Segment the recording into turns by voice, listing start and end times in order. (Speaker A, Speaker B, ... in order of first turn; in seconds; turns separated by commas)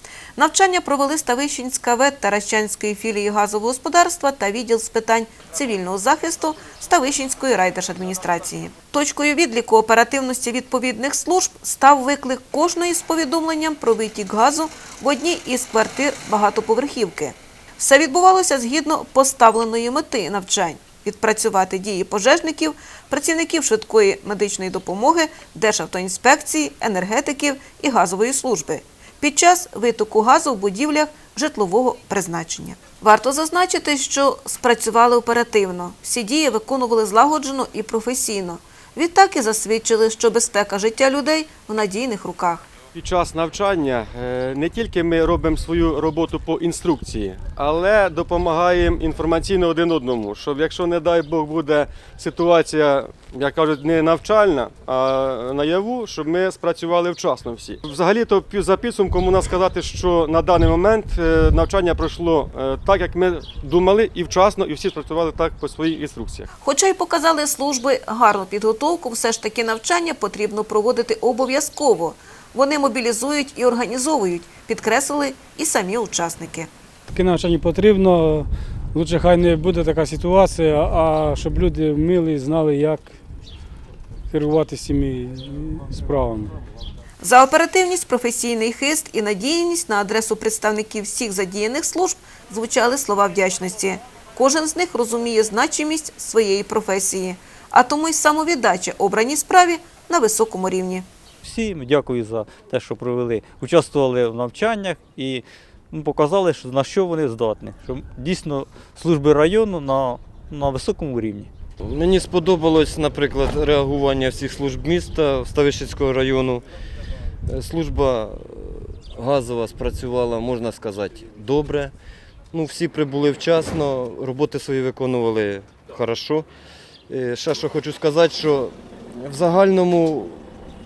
Speaker A: 0.4-42.7, Speaker B: 43.0-66.5, Speaker A: 66.6-76.7, Speaker C: 77.1-83.2, Speaker C: 84.3-86.5, Speaker A: 87.2-101.1, Speaker D: 101.4-111.5, Speaker E: 111.8-116.6, Speaker E: 117.5-121.9, Speaker E: 122.5-126.5, Speaker E: 127.1-130.4